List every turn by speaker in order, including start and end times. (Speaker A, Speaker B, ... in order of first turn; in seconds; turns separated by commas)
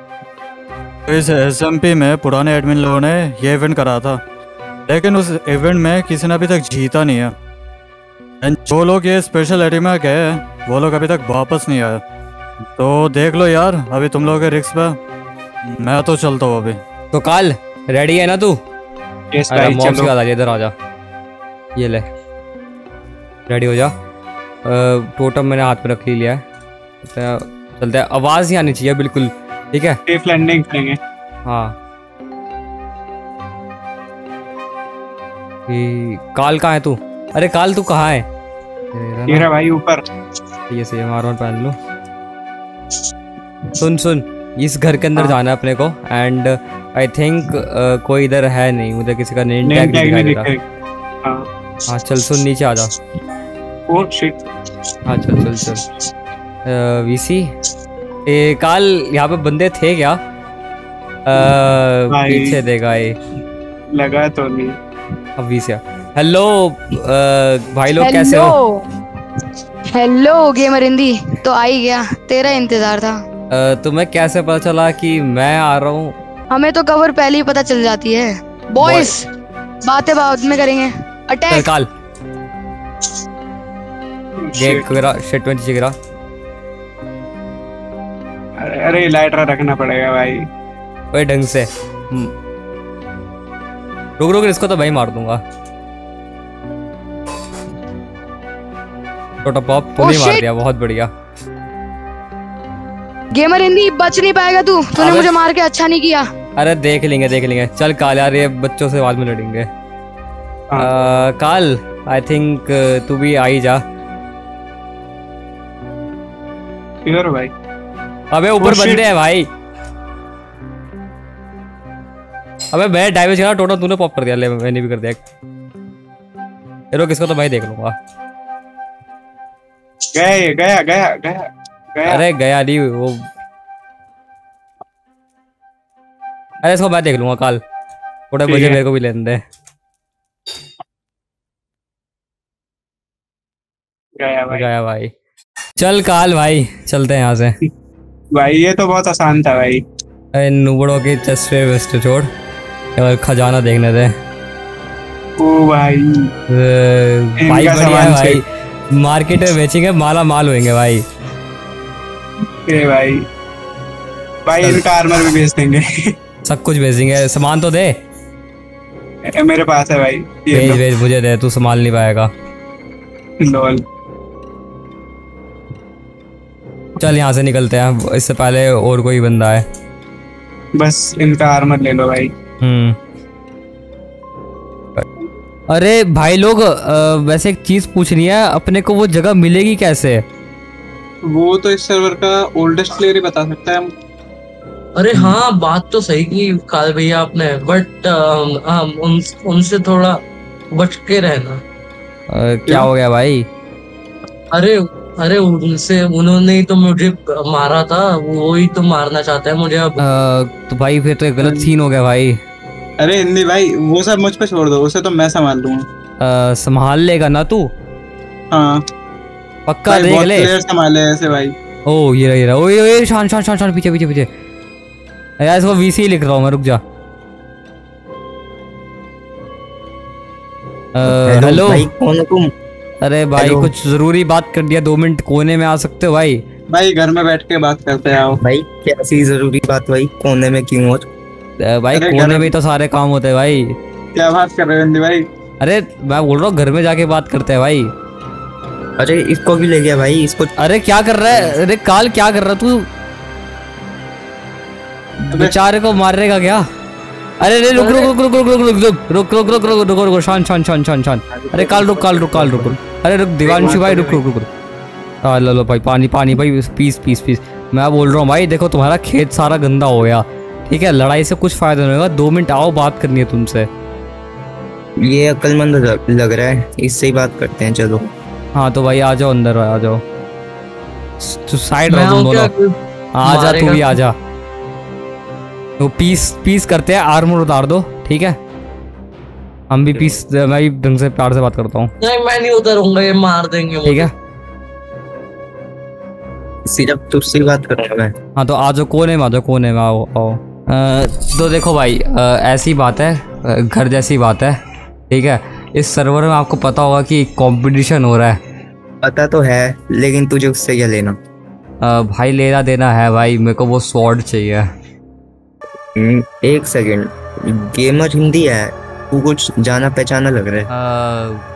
Speaker A: 1.1-4.2, Speaker A: 4.9-7.4, Speaker A: 8.4-12.0, Speaker A: 12.7-15.0, Speaker A: 15.6-16.8, Speaker B: 17.1-18.6, Speaker C: 19.3-20.1, Speaker B: 19.5-20.7, Speaker B: 21.8-22.0, Speaker B: 23.5-23.9, Speaker B: 24.6-26.4, Speaker B: 27.0-30.0, Speaker C: 30.1-31.0, Speaker B: 31.4-31.8, Speaker B: 35.7-38.2, Speaker B: 38.9-39.5, Speaker C: 39.3-40.0, Speaker B: 40.7-41.8, Speaker B: 43.8-50.5, Speaker C: 49.6-50.6, Speaker B: 51.9-52.9, Speaker C: 53.9-54.4, Speaker B: 55.1-55.8, Speaker B: 56.6-57.5, Speaker B: 58.2-60.2, Speaker B: 61.3-63.1, Speaker C: 62.1-62.5, Speaker C: 63.9-64.8, Speaker B: 65.4-68.5, Speaker D: 68.0-68.8, Speaker D: 69.9-73.2, Speaker B: 73.5-76.2, Speaker D: 76.5-79.2, Speaker B: 78.8-79.2, Speaker D: 79.9-81.7, Speaker B: 81.5-81.9, Speaker C: 84.4-84.8, Speaker B: 84.5-85.9, Speaker C: 88.6-90.4, Speaker B: 91.1-92.3, Speaker B: 94.2-95.4, Speaker B: 99.4-101.1, Speaker D: 100.0-100.4, Speaker D: 103.3-106.3, Speaker B: 105.0-105.3, Speaker B: 106.6-109.7, Speaker B: 110.8-113.8, Speaker C: 117.0-117.5, Speaker B: 118.3-119.5, Speaker C: 118.6-119.0, Speaker B: 122.7-125.2, Speaker B: 126.9-127.9, Speaker C: 130.1-132.2, Speaker B: 132.1-133.2, Speaker B: 136.6-137.6, Speaker B: 138.3-139.4, Speaker C: 138.4-138.8, Speaker C: 144.2-144.6, Speaker B: 144.5-145.1, Speaker B: 145.8-147.6, Speaker C: 148.3-149.8, Speaker B: 150.3-152.3, Speaker B: 153.0-154.1, Speaker C: 155.4-156.1, Speaker B: 156.5-158.4, Speaker C: 157.4-158.4, Speaker B: 158.9-161.0, Speaker C: 162.7-163.2, Speaker C: 164.4-165.8, Speaker B: 166.4-167.9, Speaker C: 169.2-170.8, Speaker B: 170.5-172.3, Speaker C: 173.4-173.8, Speaker B: 177.0-179.6, Speaker C: 180.8-182.3, Speaker B: 182.6-183.0, Speaker B: 185.7-190.2, Speaker C: 191.2-193.9, Speaker E: 195.0-200.2, Speaker E: 200.7-201.6, Speaker B: 202.3-203.4, Speaker E: 204.5-210.0, Speaker B: 210.0-212.4, Speaker C: 211.4-211.7, Speaker C: 213.0-215.9, Speaker B: 216.2-217.7, Speaker C: 218.5-218.8, Speaker B: 219.7-220.5, Speaker C: 219.9-221.5, Speaker B: 221.9-224.3, Speaker B: 225.4-226.8, Speaker B: 230.9-231.9, Speaker F: 231.0-232.5, Speaker B: 233.0-236.4, Speaker F: 233.3-233.7, Speaker C: 236.7-238.4, Speaker F: 238.4-241.1, Speaker B: 241.6-243.7, Speaker C: 241.9-242.5, Speaker C: 244.1-245.2, Speaker B: 245.6-247.9, Speaker F: 249.0-250.5, Speaker B: 250.6-252.9, Speaker B: 255.3-256.6, Speaker B: 257.4-264.5, Speaker E: 257.7-258.1, Speaker F: 261.3-262.8, Speaker C: 263.4-264.2, Speaker B: 265.2-273.7, Speaker F: 275.0-278.1, Speaker B: 278.5-280.0, Speaker B: 281.2-282.5, Speaker E: 281.9-283.9, Speaker B: 283.2-284.1, Speaker B: 285.8-288.4, Speaker B: 289.7-291.9, Speaker F: 289.9-290.2, Speaker E: 292.0-294.1, Speaker F: 296.7-298.1, Speaker B: 298.4-304.6, Speaker B: 305.1-308.4, Speaker F: 309.0-311.2, Speaker B: 311.8-314.7, Speaker F: 315.9-320.7, Speaker B: 320.7-321.4